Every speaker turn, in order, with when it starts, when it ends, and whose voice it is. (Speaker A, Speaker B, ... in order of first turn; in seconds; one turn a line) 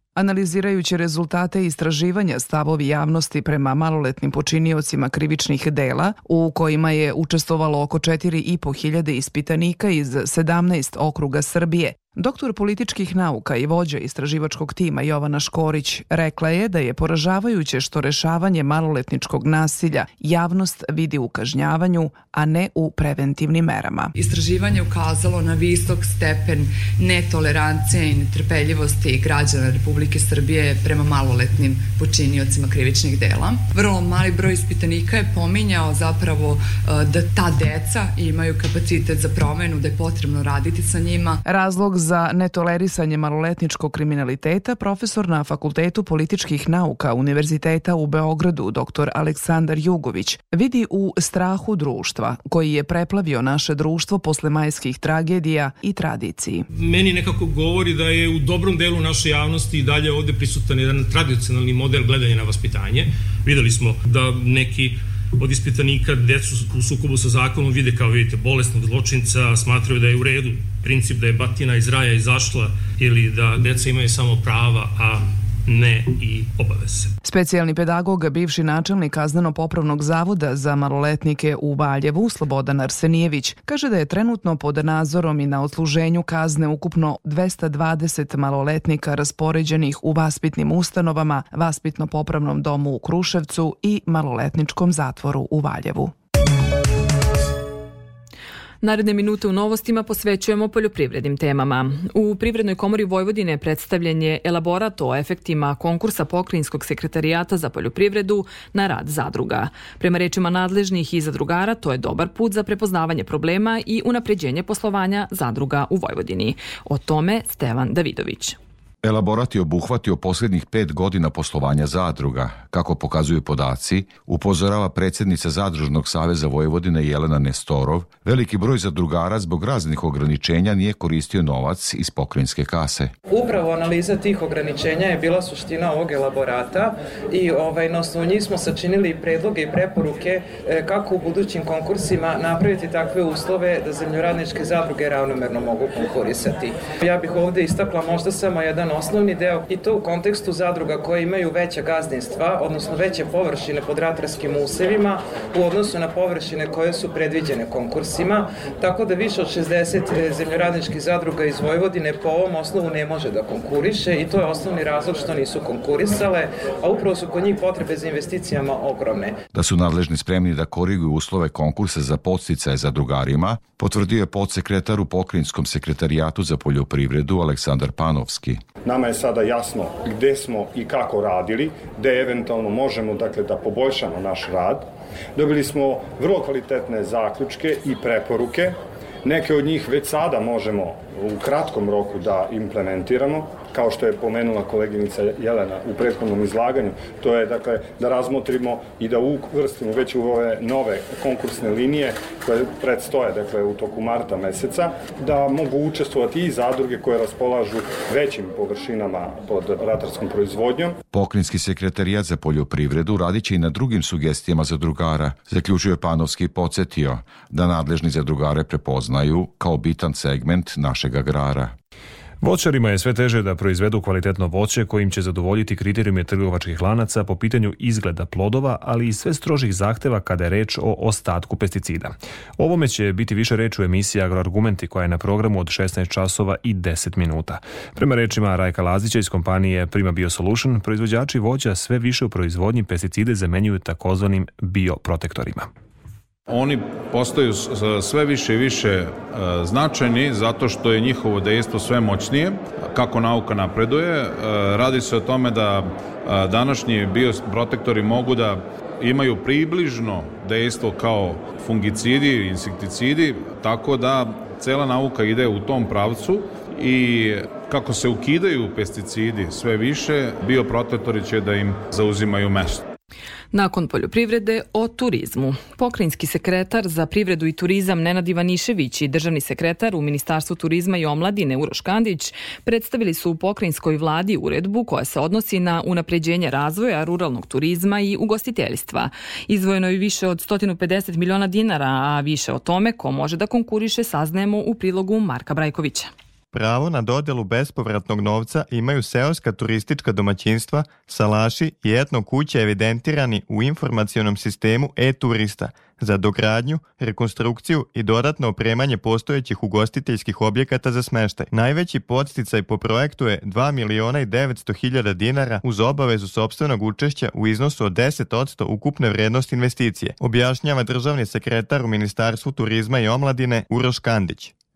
Speaker A: 0.2-24.1
Speaker B: 24.2-41.4
Speaker A: 41.5-56.7
Speaker C: 56.7-77.1
Speaker A: 77.2-96.1
Speaker D: 98.8-118.6
Speaker E: 119.0-133.1
Speaker F: 133.3-169.4
Speaker E: 169.5-178.6
Speaker G: 178.8-211.0
Speaker E: 211.1-221.7
Speaker H: 222.4-245.7
Speaker I: 246.5-272.9
Speaker D: 273.5-296.1
Speaker J: 296.5-324.5